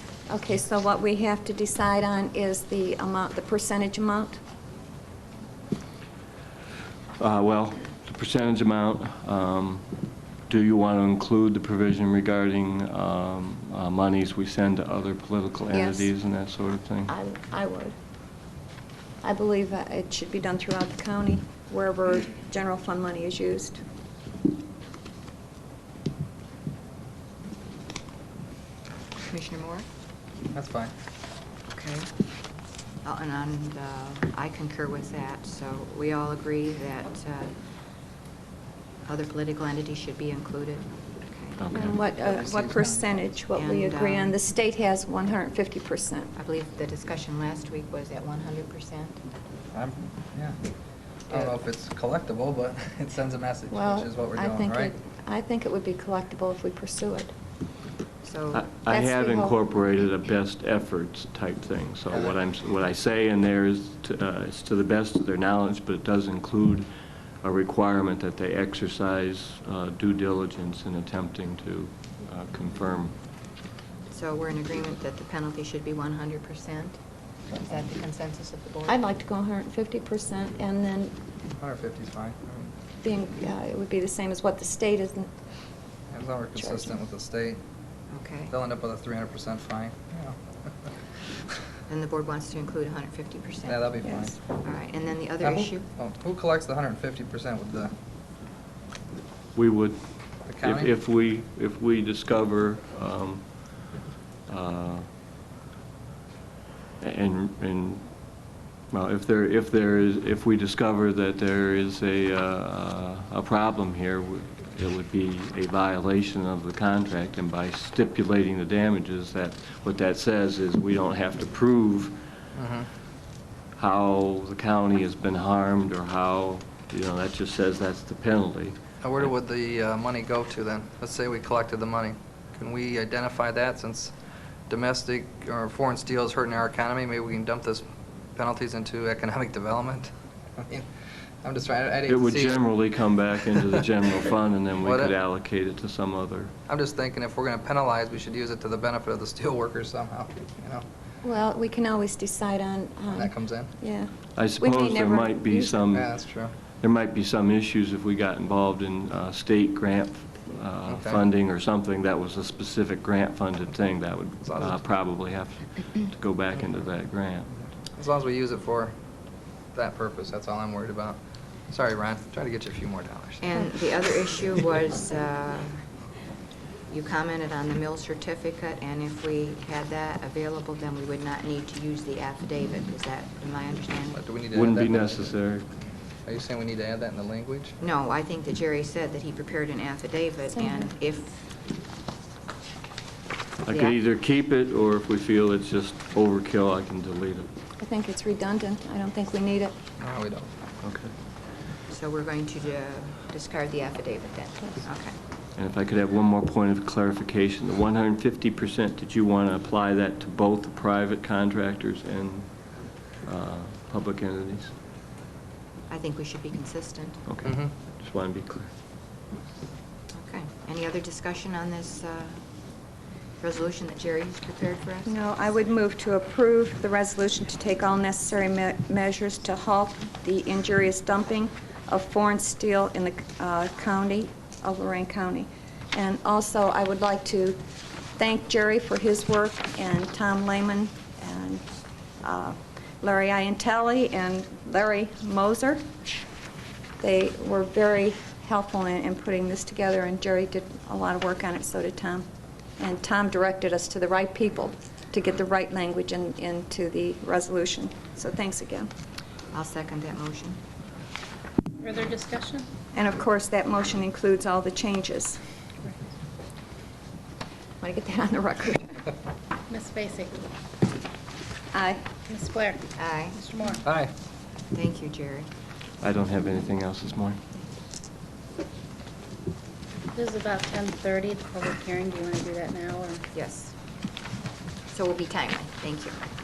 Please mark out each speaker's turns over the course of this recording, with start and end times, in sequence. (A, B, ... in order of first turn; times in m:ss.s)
0:00.3-0:04.4 A
0:07.2-0:09.8 B
0:10.5-0:17.1 B
0:15.7-0:16.1 A
0:17.0-0:17.9 A
0:19.2-0:23.8 A
0:29.2-0:29.8 C
0:30.5-0:30.9 D
0:31.7-0:32.1 C
0:33.0-0:37.6 C
0:39.0-0:41.6 C
0:41.6-0:42.0 B
0:41.7-0:46.3 A
0:42.0-0:43.2 D
0:43.5-0:44.4 C
0:46.4-0:49.2 C
0:49.7-0:50.6 D
0:51.3-0:54.9 D
0:53.7-0:57.3 A
0:58.2-0:58.7 C
0:58.5-1:06.9 B
0:58.8-0:59.6 A
1:07.4-1:13.2 B
1:14.1-1:17.0 C
1:17.5-1:19.0 C
1:18.8-1:21.1 A
1:21.6-1:22.7 D
1:23.0-1:25.3 A
1:26.1-1:27.6 D
1:26.6-1:26.9 A
1:28.1-1:28.5 C
1:28.5-1:30.4 D
1:31.9-1:33.9 C
1:33.6-1:34.4 D
1:34.0-1:34.4 A
1:34.6-1:35.9 C
1:35.4-1:37.9 D
1:39.5-1:43.9 B
1:40.5-1:40.9 D
1:44.5-1:45.1 B
1:47.0-1:48.1 B
1:48.9-2:02.2 B
2:02.5-2:02.9 D
2:03.8-2:08.8 B
2:09.0-2:14.1 D
2:14.7-2:20.1 D
2:21.4-2:22.8 D
2:22.1-2:26.5 B
2:24.8-2:25.2 D
2:26.7-2:30.8 D
2:31.2-2:35.9 A
2:33.1-2:33.7 D
2:34.4-2:47.5 B
2:35.9-2:36.5 D
2:40.9-2:41.2 D
2:44.4-2:44.8 D
2:47.9-2:48.9 D
2:49.7-2:51.2 D
2:51.7-2:53.5 D
2:53.4-2:55.9 C
2:56.9-3:04.2 C
3:04.1-3:05.4 D
3:04.5-3:05.7 B
3:06.2-3:07.8 D
3:07.8-3:11.4 C
3:10.6-3:10.9 A
3:13.6-3:17.5 B
3:13.7-3:14.0 C
3:17.8-3:19.7 A
3:20.0-3:20.5 D
3:20.8-3:21.1 B
3:21.9-3:25.1 C
3:25.6-3:34.7 B
3:35.9-3:37.2 C
3:37.3-3:38.7 B
3:37.4-3:37.7 D
3:40.1-3:42.4 C
3:43.4-3:45.2 C
3:45.0-3:57.6 A
3:58.2-4:01.6 A
4:02.2-4:05.8 A
4:07.0-4:12.2 A
4:12.8-4:18.9 A
4:19.5-4:20.6 C
4:21.8-4:22.7 E
4:22.9-4:25.4 A
4:27.8-4:29.0 A
4:29.7-4:30.4 E
4:31.7-4:32.0 A
4:32.3-4:33.8 E
4:33.0-4:33.4 C
4:33.8-4:34.1 D
4:34.7-4:35.5 C
4:36.0-4:37.4 B
4:40.1-4:43.2 E
4:43.3-4:43.7 C
4:44.9-4:46.2 C